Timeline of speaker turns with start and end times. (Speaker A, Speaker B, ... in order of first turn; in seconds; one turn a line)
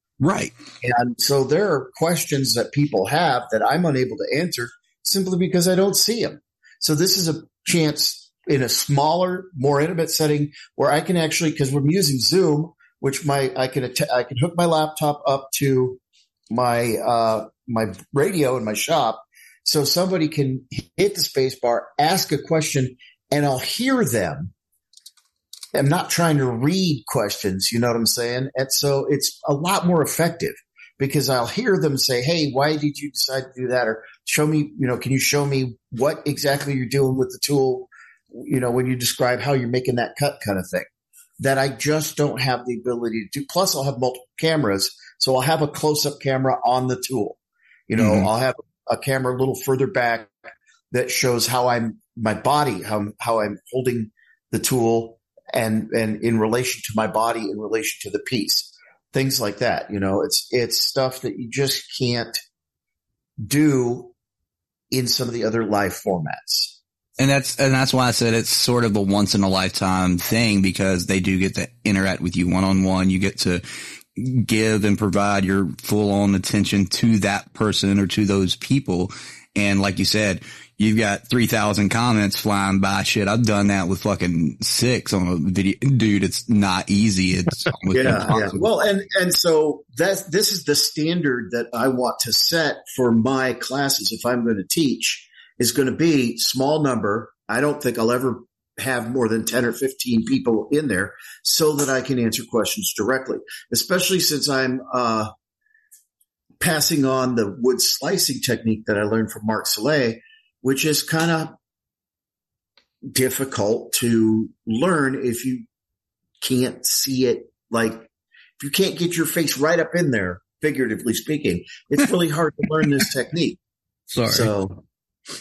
Speaker A: 0.2-0.5
Speaker B: 0.8-16.0
Speaker B: 16.5-24.5
Speaker B: 25.7-40.9
Speaker B: 41.4-50.4
Speaker A: 48.0-48.3
Speaker B: 50.9-62.4
Speaker B: 63.4-64.1
Speaker B: 64.9-66.8
Speaker A: 67.2-73.6
Speaker A: 74.1-88.7
Speaker B: 87.9-105.3
Speaker B: 106.6-111.6
Speaker B: 113.1-115.7
Speaker B: 116.4-118.1
Speaker B: 118.6-123.6
Speaker A: 124.1-124.5
Speaker B: 124.3-124.8